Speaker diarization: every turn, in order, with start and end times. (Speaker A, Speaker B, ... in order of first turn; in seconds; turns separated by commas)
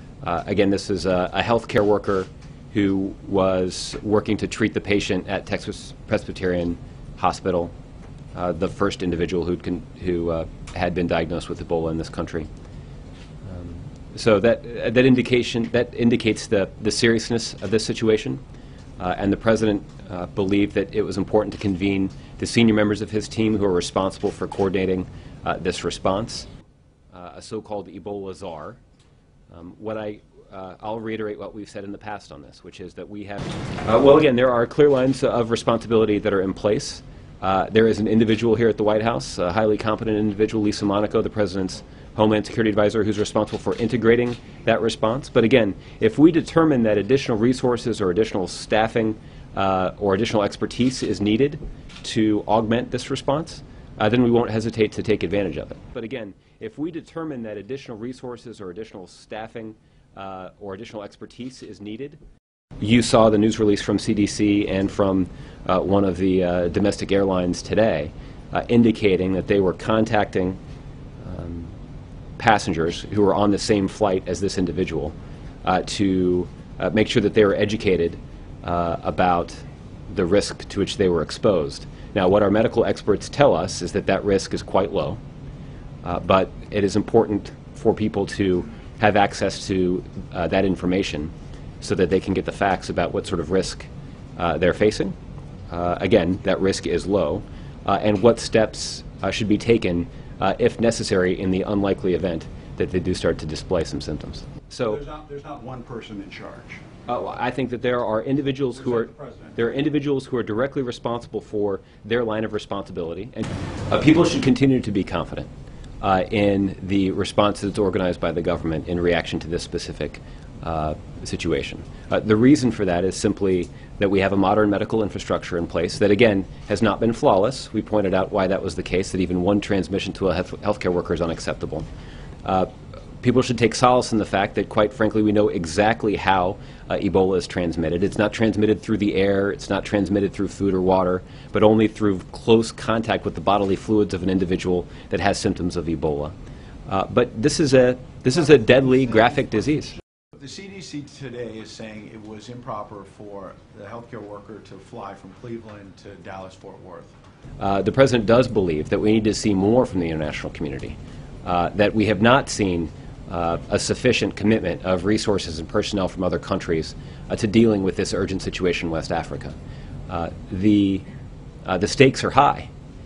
Speaker A: 0.2-7.7, Speaker A: 8.3-12.5, Speaker A: 13.4-18.4, Speaker A: 19.0-26.5, Speaker A: 27.1-28.8, Speaker A: 29.5-62.2, Speaker A: 62.8-70.6, Speaker A: 71.2-71.8, Speaker A: 72.4-85.2, Speaker A: 86.0-95.2, Speaker A: 95.7-105.0, Speaker B: 104.8-106.8, Speaker A: 107.1-115.5, Speaker B: 109.1-109.6, Speaker A: 116.0-131.9, Speaker A: 132.4-132.7, Speaker A: 133.2-146.3, Speaker A: 146.9-150.0, Speaker B: 150.3-157.2, Speaker A: 157.6-169.6, Speaker A: 170.1-171.1, Speaker A: 171.7-172.7